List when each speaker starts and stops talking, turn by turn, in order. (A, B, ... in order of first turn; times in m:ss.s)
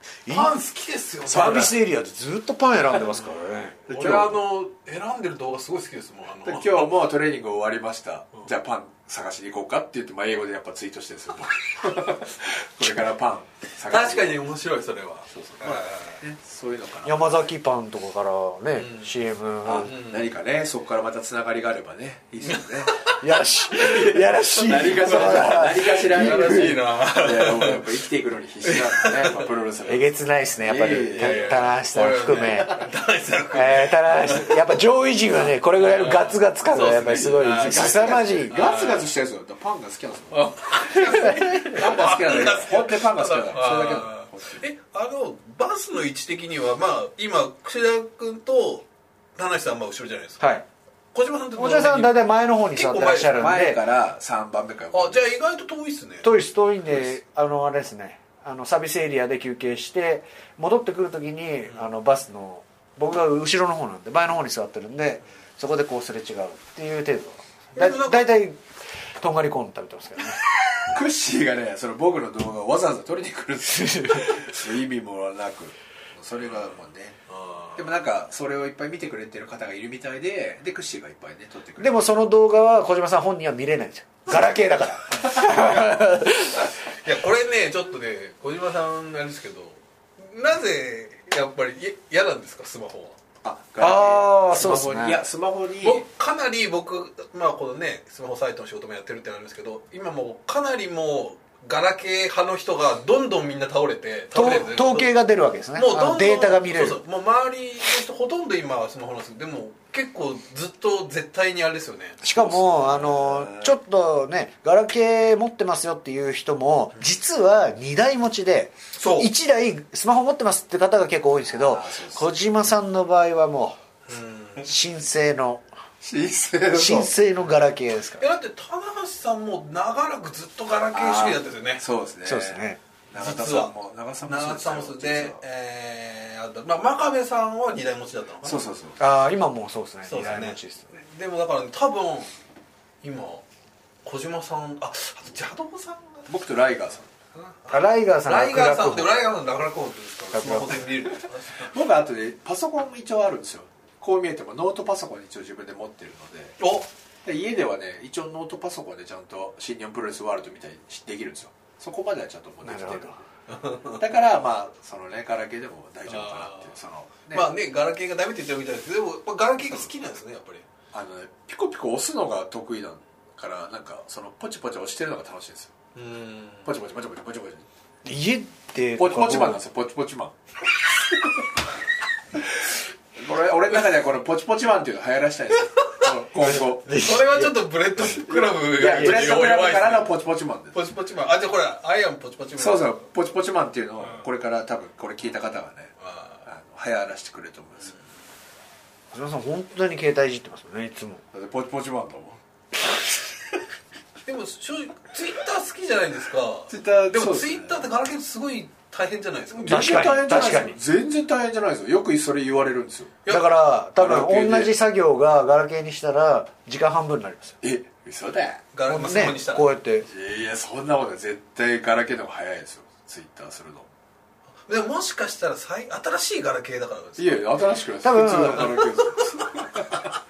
0:00.3-0:00.5 A
0:00.3-0:01.7 B
0:01.3-0:03.8 A
0:01.3-0:01.7 C
0:03.9-0:04.4 C
0:03.9-0:07.0 B
0:06.4-0:14.4 C
0:13.9-0:16.2 B
0:15.3-0:17.4 C
0:17.0-0:20.0 A
0:18.8-0:19.1 B
0:19.6-0:23.1 C
0:19.8-0:20.2 B
0:22.5-0:23.2 B
0:23.2-0:26.8 A
0:23.7-0:28.0 B
0:24.0-0:31.7 C
0:28.6-0:29.5 B
0:29.9-0:32.8 A
0:31.2-0:34.6 B
0:33.5-0:38.8 A
0:35.7-0:39.1 B
0:37.5-0:40.5 C
0:40.3-0:50.5 B
0:41.1-0:41.7 A
0:41.6-0:44.7 C
0:50.4-0:50.6 A
0:51.1-0:52.2 B
0:51.6-0:53.8 A
0:52.8-0:53.4 B
0:53.3-0:55.2 C
0:54.9-0:56.3 B
0:56.2-1:08.6 A
1:07.8-1:08.3 B
1:09.2-1:10.4 A
1:10.9-1:17.2 C
1:13.7-1:14.5 A
1:17.3-1:18.0 B
1:17.8-1:22.0 C
1:21.8-1:26.7 A
1:27.0-1:33.2 B
1:33.4-1:36.0 C
1:33.8-1:35.2 A
1:35.8-1:45.1 B
1:44.3-1:47.0 A
1:45.8-1:52.5 B
1:52.2-2:03.8 A
1:52.3-1:53.8 C
1:59.0-1:59.3 B
2:01.5-2:02.3 C
2:04.1-2:04.7 B
2:04.6-2:05.7 A
2:06.0-2:07.1 C
2:06.7-2:08.3 A
2:08.2-2:11.8 B
2:10.9-2:15.4 C
2:12.2-2:12.8 A
2:13.2-2:18.7 B
2:18.4-2:19.0 C
2:19.0-2:21.0 A
2:20.1-2:22.3 B
2:23.0-2:23.4 B
2:24.0-2:26.3 B
2:26.3-2:27.1 C
2:27.4-2:31.7 B
2:27.7-2:29.2 A
2:30.3-2:30.8 A
2:31.6-2:36.6 C
2:36.6-2:36.9 B
2:37.2-2:43.2 C
2:42.6-2:43.2 A
2:43.5-2:44.0 B
2:43.9-2:47.5 C
2:46.1-2:46.7 B
2:47.3-2:50.7 B
2:50.9-2:55.7 C
2:56.0-2:56.7 B
2:56.6-2:57.7 C
2:58.0-2:59.6 A
2:59.0-3:00.4 C
3:03.2-3:07.0 C
3:05.7-3:10.1 B
3:06.4-3:08.2 A
3:08.3-3:10.8 C
3:08.8-3:09.2 A
3:10.7-3:13.0 B
3:12.6-3:15.9 C
3:16.0-3:16.4 B
3:16.4-3:17.9 C
3:19.1-3:21.2 A
3:21.3-3:22.4 C
3:24.2-3:30.2 B
3:26.7-3:27.8 C
3:29.5-3:33.2 C
3:29.7-3:30.8 A
3:33.3-3:37.6 A
3:34.0-3:34.7 C
3:37.6-3:38.7 C
3:38.7-3:39.7 B
3:38.9-3:40.1 A
3:40.1-3:43.9 C
3:44.7-3:47.5 B
3:47.2-3:50.0 C
3:48.0-3:48.8 A
3:49.2-3:50.0 B